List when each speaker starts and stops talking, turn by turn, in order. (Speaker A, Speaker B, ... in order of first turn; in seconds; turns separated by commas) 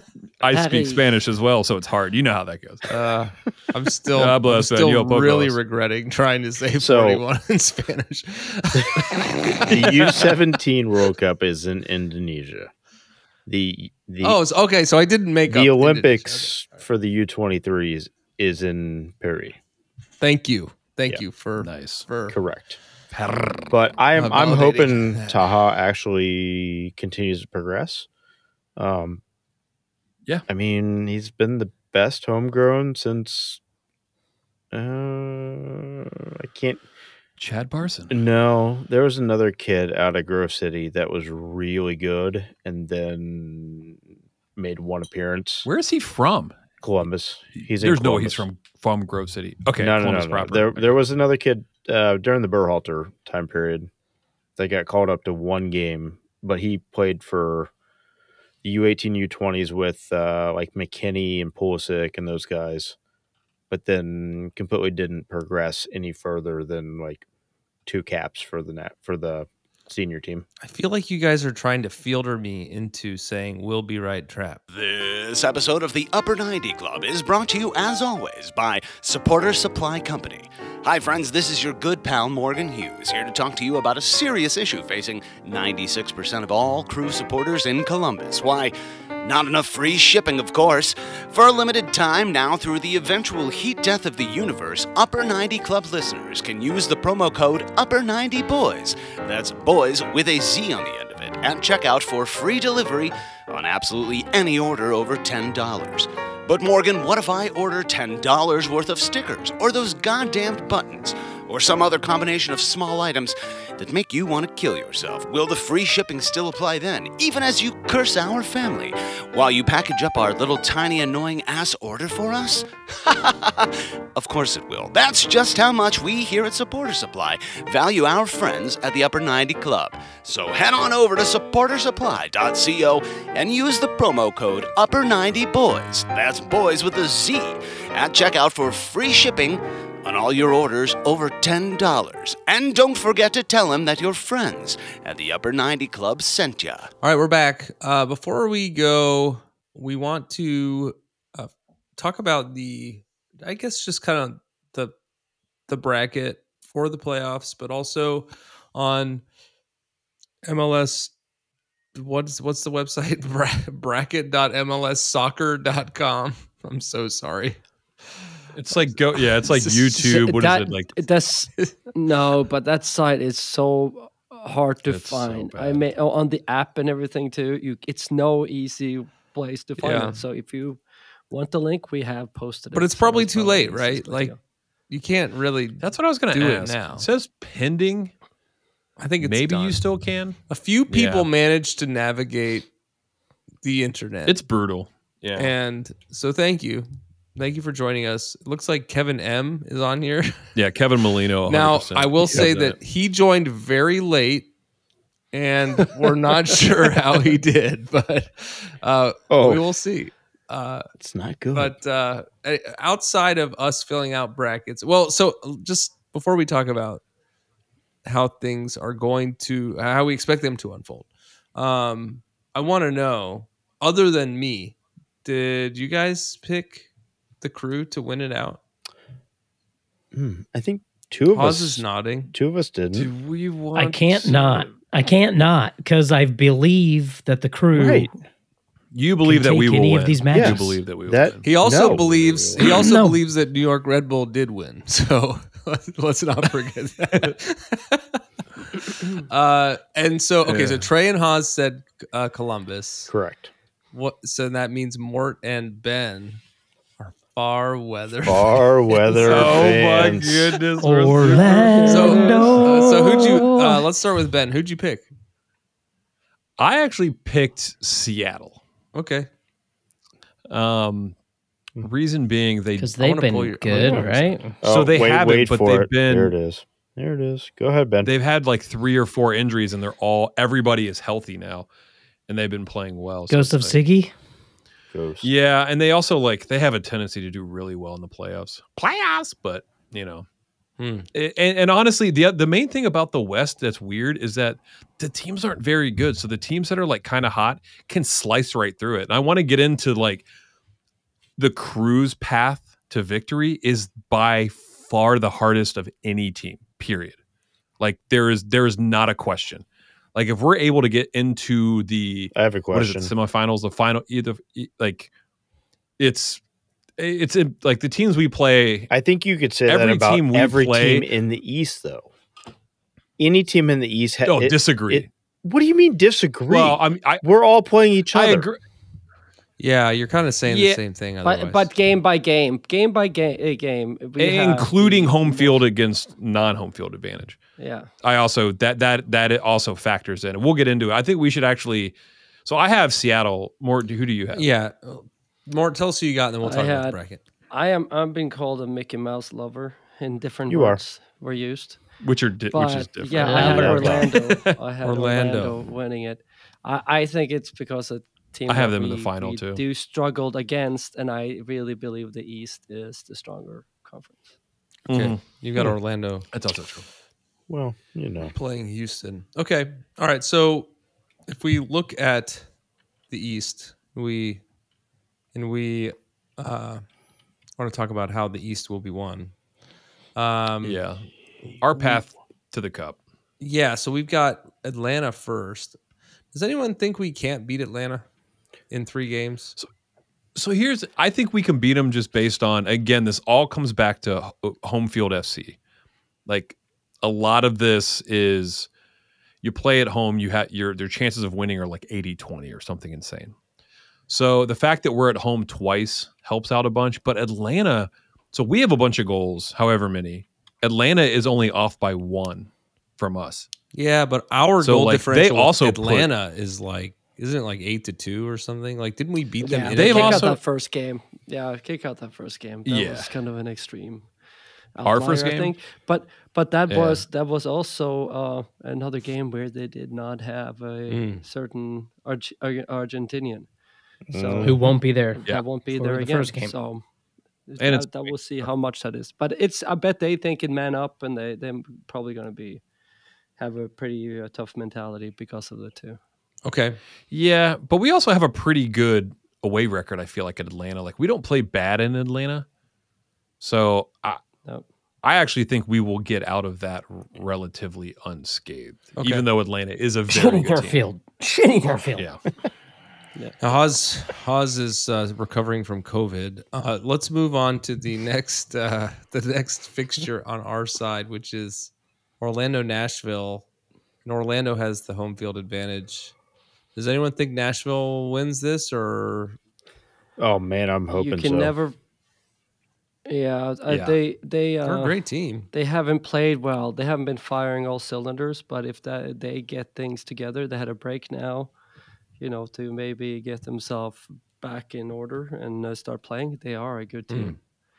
Speaker A: 0.4-2.9, Speaker B: 0.4-1.0, Speaker C: 2.9-9.8, Speaker A: 4.1-5.6, Speaker D: 6.8-7.2, Speaker D: 9.7-12.7, Speaker D: 13.5-14.4, Speaker C: 14.2-16.5, Speaker D: 15.5-19.6, Speaker C: 20.2-22.4, Speaker A: 21.6-22.1, Speaker D: 22.3-22.8, Speaker A: 23.1-23.8, Speaker D: 23.7-28.1, Speaker C: 24.1-25.5, Speaker D: 28.8-29.2, Speaker D: 30.5-33.6, Speaker D: 34.7-36.8, Speaker A: 37.4-38.2, Speaker D: 38.1-44.0, Speaker D: 44.6-45.7, Speaker A: 45.6-46.6, Speaker D: 46.8-48.5, Speaker A: 47.6-51.0, Speaker D: 49.8-53.9, Speaker D: 54.6-57.7, Speaker D: 58.6-63.0, Speaker D: 63.7-67.3, Speaker D: 67.9-70.5, Speaker C: 70.6-74.6, Speaker E: 74.7-146.9, Speaker C: 147.0-154.9, Speaker C: 155.7-159.2, Speaker C: 160.5-161.1, Speaker C: 161.9-167.6, Speaker A: 168.5-170.9, Speaker C: 169.2-170.2, Speaker B: 170.0-184.4, Speaker A: 174.9-175.8, Speaker C: 179.8-180.2, Speaker C: 182.7-184.3, Speaker C: 184.9-187.1, Speaker A: 185.8-188.1, Speaker C: 189.0-189.8, Speaker A: 189.2-191.3, Speaker C: 190.5-192.7, Speaker C: 193.6-194.4, Speaker A: 194.3-195.5, Speaker C: 195.3-200.5, Speaker A: 200.6-202.8, Speaker C: 201.5-204.5, Speaker C: 205.3-210.9, Speaker D: 209.3-209.6, Speaker D: 211.0-211.8, Speaker C: 211.5-217.0, Speaker C: 218.1-226.9, Speaker C: 227.4-228.6, Speaker D: 230.1-233.1, Speaker C: 231.3-232.3, Speaker A: 232.9-234.8, Speaker F: 233.8-238.1, Speaker D: 237.7-238.1, Speaker A: 238.9-242.0, Speaker F: 239.2-240.8, Speaker D: 240.3-242.6, Speaker C: 241.4-248.2, Speaker F: 242.6-243.2, Speaker C: 248.8-253.1, Speaker A: 250.4-250.9, Speaker D: 253.1-253.5, Speaker C: 253.9-256.4, Speaker C: 257.0-259.8, Speaker D: 258.2-260.6, Speaker A: 259.1-262.7, Speaker F: 260.8-263.9, Speaker C: 261.9-265.1, Speaker A: 266.6-268.6, Speaker C: 268.9-269.3, Speaker A: 270.5-271.2, Speaker A: 271.8-273.0, Speaker F: 272.8-274.6, Speaker C: 273.0-274.4, Speaker A: 273.7-274.0, Speaker A: 274.6-276.3, Speaker D: 274.6-278.1, Speaker A: 278.0-281.7, Speaker A: 282.3-283.8, Speaker F: 283.3-284.1, Speaker D: 284.9-285.3, Speaker A: 285.2-290.3, Speaker C: 290.8-291.1, Speaker A: 291.1-300.3, Speaker A: 301.4-307.2, Speaker A: 307.8-315.1, Speaker D: 312.4-313.1, Speaker A: 316.0-316.4, Speaker A: 317.0-318.9, Speaker D: 318.9-322.1, Speaker A: 319.7-321.1, Speaker D: 323.2-328.5, Speaker A: 324.2-325.1, Speaker A: 326.5-327.2, Speaker A: 328.1-328.6, Speaker C: 329.6-331.7, Speaker A: 330.5-330.8, Speaker B: 331.2-335.6, Speaker A: 334.2-337.4, Speaker B: 337.6-337.9, Speaker A: 338.0-344.5, Speaker C: 344.3-347.2, Speaker B: 346.4-347.0, Speaker B: 347.5-351.8, Speaker D: 350.5-350.8, Speaker A: 352.0-354.5, Speaker B: 352.5-364.3, Speaker F: 353.1-354.0, Speaker D: 353.4-354.1, Speaker C: 354.8-355.6, Speaker A: 358.5-359.6, Speaker A: 364.9-365.2, Speaker C: 364.9-366.3, Speaker A: 366.3-366.9, Speaker D: 367.5-368.3, Speaker C: 368.3-370.7, Speaker C: 371.3-372.4, Speaker C: 373.1-374.4, Speaker C: 375.3-376.8, Speaker C: 377.6-379.3, Speaker C: 380.2-380.8, Speaker A: 380.6-381.1, Speaker A: 381.6-383.0, Speaker C: 383.4-385.8, Speaker C: 386.3-388.0, Speaker C: 388.7-389.6, Speaker A: 390.4-395.6, Speaker A: 396.3-398.7, Speaker A: 399.4-403.4, Speaker A: 404.1-413.5, Speaker C: 413.7-420.3, Speaker A: 414.6-416.1, Speaker B: 419.4-424.1, Speaker A: 419.7-420.4, Speaker A: 422.7-423.1, Speaker B: 424.8-433.5, Speaker A: 424.8-425.5, Speaker A: 426.7-427.0, Speaker C: 430.9-431.2, Speaker D: 434.1-434.6, Speaker B: 434.1-436.8, Speaker F: 434.4-436.6, Speaker B: 437.5-442.6, Speaker A: 437.6-438.1, Speaker B: 443.4-446.0, Speaker C: 446.4-446.8, Speaker A: 447.1-452.5, Speaker A: 453.4-454.2, Speaker A: 455.0-460.8, Speaker C: 459.0-459.3, Speaker F: 460.1-462.1, Speaker C: 463.4-473.5, Speaker C: 474.1-476.1, Speaker C: 476.8-479.4, Speaker D: 480.2-481.5, Speaker B: 480.9-481.8, Speaker B: 483.1-485.0, Speaker A: 483.7-484.0, Speaker C: 484.6-485.5, Speaker B: 485.5-491.5, Speaker B: 492.2-497.4, Speaker C: 497.1-497.4